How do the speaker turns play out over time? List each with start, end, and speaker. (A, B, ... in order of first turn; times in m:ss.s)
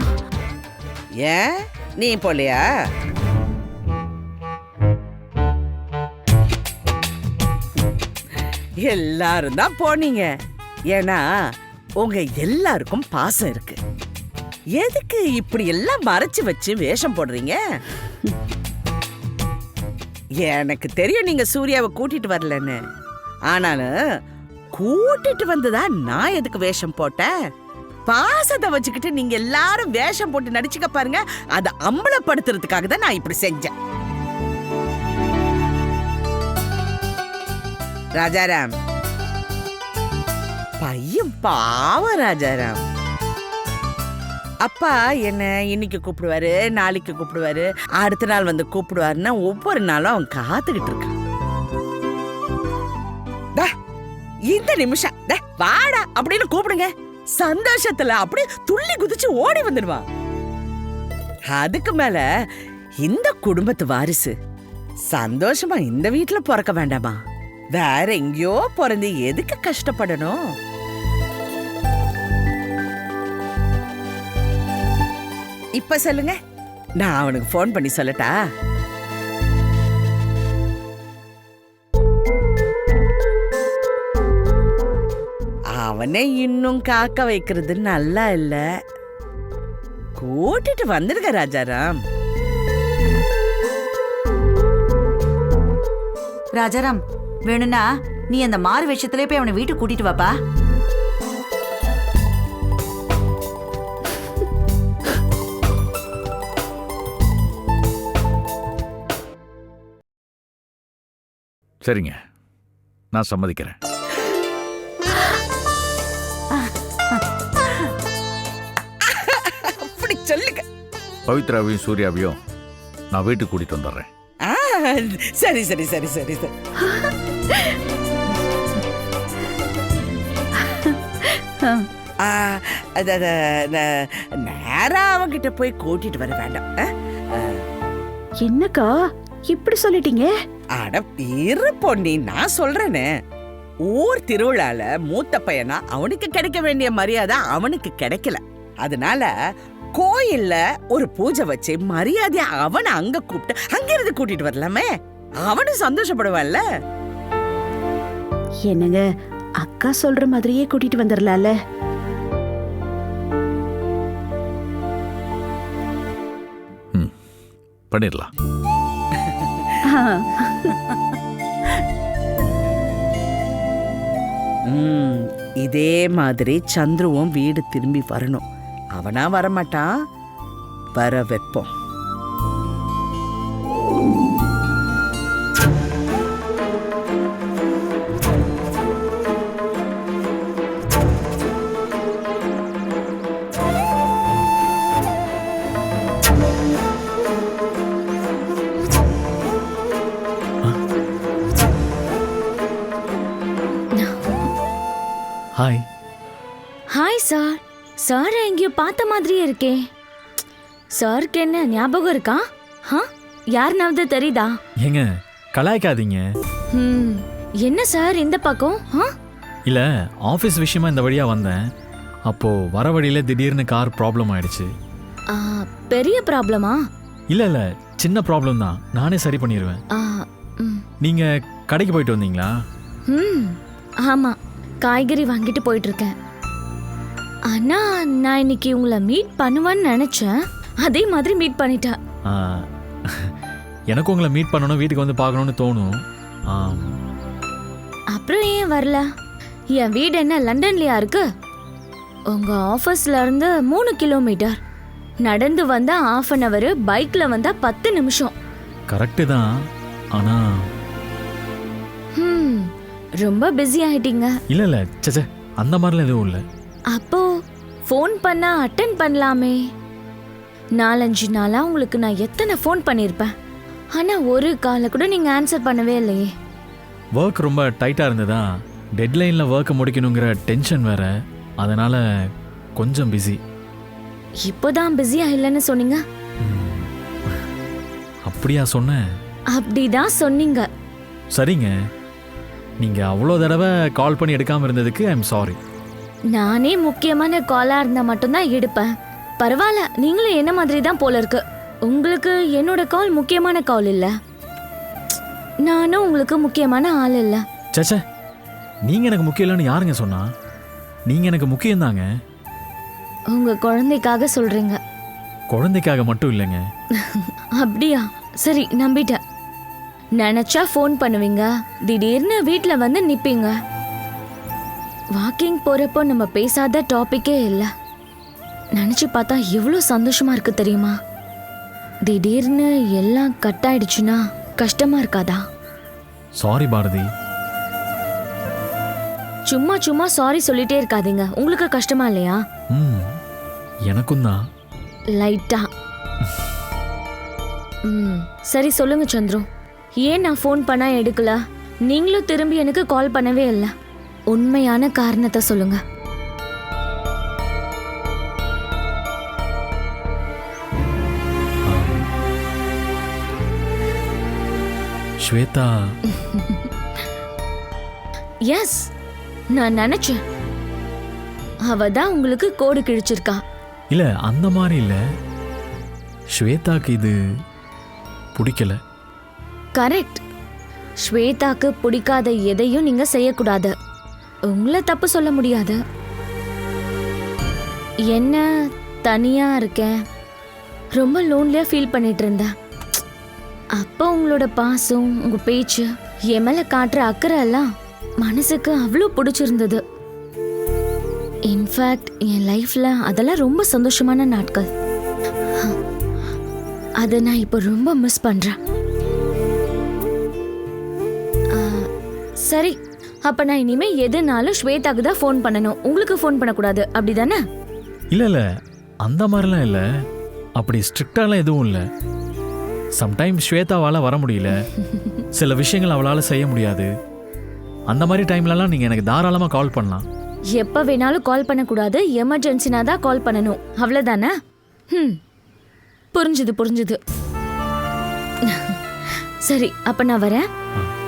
0:02.0-0:02.6 A
0:08.8-0:10.3 A
0:10.9-0:11.2 A
0:12.0-0:13.8 A
0:14.8-0:17.6 A
0:20.4-0:22.8 A
0:23.5-0:23.9 A
0:24.7-0:27.3 A
0:28.1-0:33.7 A
0:38.2-0:38.7 A
0:40.8-0:42.8 A
0:44.6-0:51.2 A
0:54.5-1:00.0 A
1:01.5-1:02.2 A
1:03.0-1:04.3 A
1:05.1-1:07.2 A
1:07.8-1:10.4 A
1:15.8-1:16.4 A
1:17.0-1:18.3 A
1:25.8-1:28.6 A
1:30.2-1:31.9 A
1:36.5-1:40.3 B
1:51.8-1:52.2 C
1:53.1-1:53.8 C
1:59.2-2:00.6 A
2:01.3-2:02.4 C
2:03.1-2:04.1 C
2:04.5-2:06.5 A
2:10.7-2:10.9 D
2:12.2-2:13.8 A
2:14.4-2:16.8 A
2:18.4-2:18.9 D
2:19.5-2:20.3 D
2:20.8-2:23.1 A
2:23.9-2:29.3 A
2:30.0-2:34.9 A
2:35.4-2:36.6 A
2:38.7-2:39.0 D
2:39.6-2:41.5 D
2:47.9-2:48.3 C
2:49.9-2:50.7 D
2:54.7-2:58.4 A
2:59.0-2:59.9 A
3:01.0-3:01.7 A
3:25.6-3:25.8 E
3:26.9-3:29.8 F
3:30.9-3:34.6 F
3:34.8-3:36.2 E
3:36.7-3:39.1 F
3:39.7-3:41.6 E
3:42.3-3:44.7 E
3:45.3-3:46.8 F
3:47.3-3:49.8 E
3:49.9-3:50.8 F
3:51.0-3:52.5 E
3:53.1-3:56.1 F
3:57.5-4:02.0 F
4:02.3-4:02.7 E
4:03.9-4:06.0 E
4:06.5-4:07.0 E
4:08.1-4:09.1 F
4:09.7-4:11.2 F
4:12.3-4:14.6 F
4:15.2-4:18.4 F
4:18.9-4:19.5 E
4:20.1-4:20.4 E
4:22.2-4:22.7 F
4:23.2-4:24.4 F
4:24.5-4:26.4 E
4:26.9-4:27.3 F
4:27.9-4:29.6 F
4:30.8-4:33.3 F
4:33.9-4:36.3 F
4:37.2-4:38.4 E
4:39.0-4:42.0 E
4:42.8-4:43.4 E
4:44.4-4:46.0 F
4:46.4-4:46.9 E
4:48.3-4:49.0 E
4:49.5-4:50.7 F
4:51.3-4:51.7 E
4:52.8-4:55.6 E
4:56.3-4:58.9 F
4:59.4-5:04.1 F
5:05.6-5:07.4 F
5:07.8-5:08.0 E
5:08.9-5:10.3 E
5:11.1-5:12.0 E
5:13.3-5:14.8 F
5:15.5-5:16.6 E
5:17.0-5:19.2 F
5:20.2-5:23.6 F
5:25.1-5:27.7 F
5:28.7-5:31.0 F
5:32.0-5:35.4 F
5:36.4-5:37.1 E
5:39.5-5:42.4 F
5:42.7-5:43.1 E
5:43.9-5:44.4 E
5:45.2-5:45.7 F
5:47.9-5:49.4 F
5:50.0-5:53.7 F
5:54.3-5:55.8 F
6:01.7-6:02.1 E
6:05.2-6:06.0 E
6:06.2-6:06.6 F
6:08.5-6:08.8 F
6:09.5-6:10.2 F
6:11.7-6:13.4 F
6:13.9-6:15.0 E
6:16.4-6:17.2 E
6:18.4-6:18.8 E
6:19.8-6:20.2 F
6:21.0-6:23.7 F
6:24.5-6:25.8 F
6:28.1-6:28.4 F
6:29.0-6:30.0 F
6:31.0-6:32.5 F
6:33.8-6:37.7 F
6:38.2-6:39.8 F
6:41.5-6:44.7 F
6:47.0-6:48.6 F
6:51.5-6:51.9 F
6:52.4-6:57.4 F
6:58.1-6:58.4 E
6:59.0-6:59.8 E
7:00.6-7:01.8 E
7:03.0-7:04.5 E
7:05.3-7:06.9 E
7:07.9-7:10.1 E
7:10.6-7:14.3 F
7:14.9-7:15.2 F
7:16.1-7:17.0 F
7:18.4-7:18.8 F
7:19.4-7:20.5 F